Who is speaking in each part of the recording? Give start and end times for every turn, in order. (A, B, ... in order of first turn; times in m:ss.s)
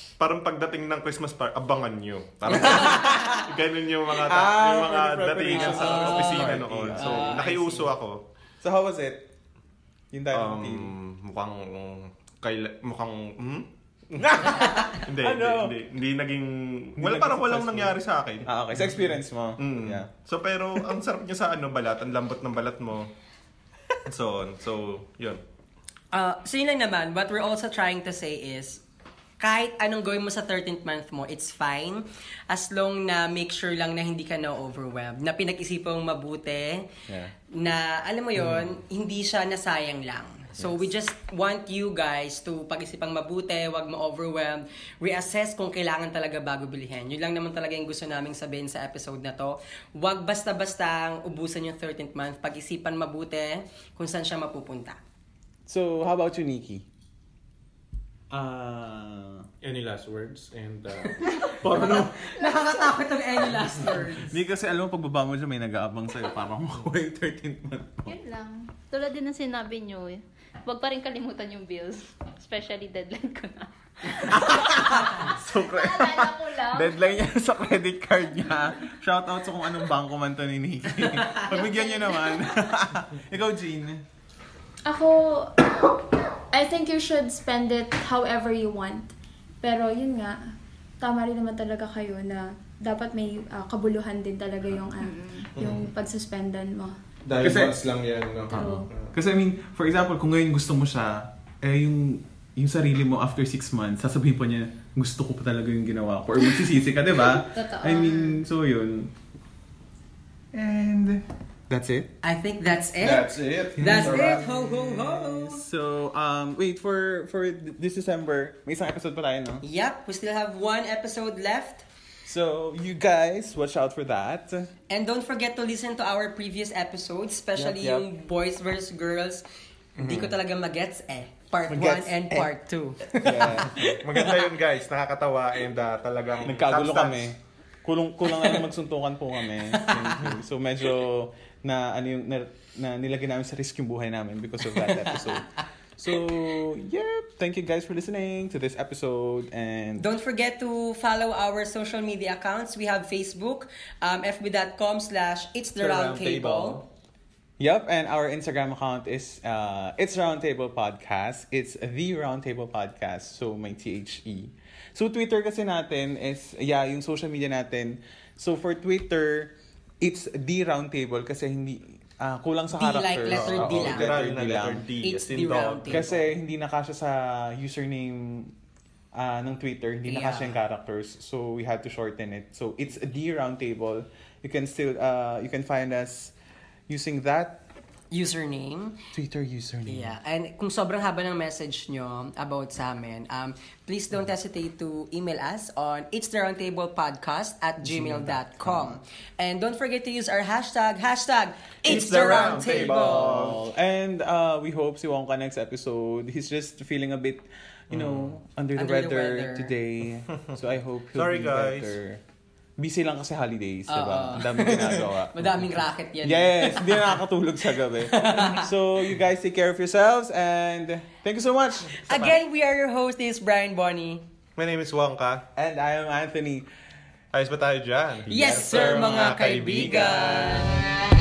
0:00.2-0:08.2 A
0:02.5-0:03.5 B
0:04.2-0:07.4 B
0:05.5-0:07.9 C
0:08.6-0:09.3 B
0:10.1-0:11.0 B
0:10.3-0:19.0 A
0:14.2-0:15.8 B
0:14.4-0:15.0 C
0:17.0-0:20.1 B
0:19.6-0:23.1 A
0:24.0-0:25.4 A
0:26.1-0:28.8 C
0:29.4-0:36.9 C
0:37.1-0:37.3 B
0:37.5-0:55.0 C
0:40.6-0:40.9 B
0:55.7-0:56.9 B
0:58.3-0:59.5 B
0:59.6-1:01.3 A
1:01.0-1:04.4 C
1:01.5-1:02.4 B
1:04.1-1:08.2 B
1:08.1-1:17.3 D
1:14.2-1:24.0 B
1:18.4-1:18.7 D
1:21.3-1:22.7 D
1:24.8-1:37.0 E
1:35.0-1:35.5 D
1:35.6-1:35.9 A
1:37.2-1:39.1 A
1:37.4-1:37.8 B
1:38.5-1:49.1 B
1:47.3-1:48.4 D
1:50.5-1:52.1 B
1:52.2-1:55.6 C
1:53.0-1:59.6 B
1:53.8-1:54.4 A
1:59.6-2:01.8 C
2:02.2-2:04.7 B
2:04.9-2:09.4 C
2:07.6-2:08.1 B
2:10.0-2:14.5 C
2:10.0-2:10.3 B
2:11.7-2:12.5 B
2:13.1-2:13.9 B
2:13.8-2:17.3 A
2:16.4-2:30.1 B
2:18.3-2:18.7 C
2:19.5-2:20.3 C
2:24.6-2:25.4 C
2:30.0-2:36.8 C
2:35.8-2:36.8 A
2:37.6-2:54.8 B
2:52.7-2:54.1 C
2:53.3-2:56.1 A
2:55.0-2:56.2 C
2:55.9-2:58.5 B
2:59.1-3:06.3 B
3:00.1-3:00.6 C
3:06.9-3:07.6 B
3:08.1-3:09.1 C
3:09.1-3:10.1 B
3:09.9-3:23.5 C
3:17.8-3:19.0 B
3:21.8-3:23.6 A
3:21.9-3:32.2 B
3:27.9-3:28.4 A
3:28.8-3:29.7 C
3:31.1-3:32.0 A
3:32.8-3:42.4 B
3:33.9-3:37.2 C
3:37.8-3:38.7 C
3:42.0-3:44.2 C
3:44.6-3:45.4 A
3:45.6-3:46.7 B
3:47.3-3:50.5 A
3:48.3-3:50.8 C
3:48.4-3:51.0 B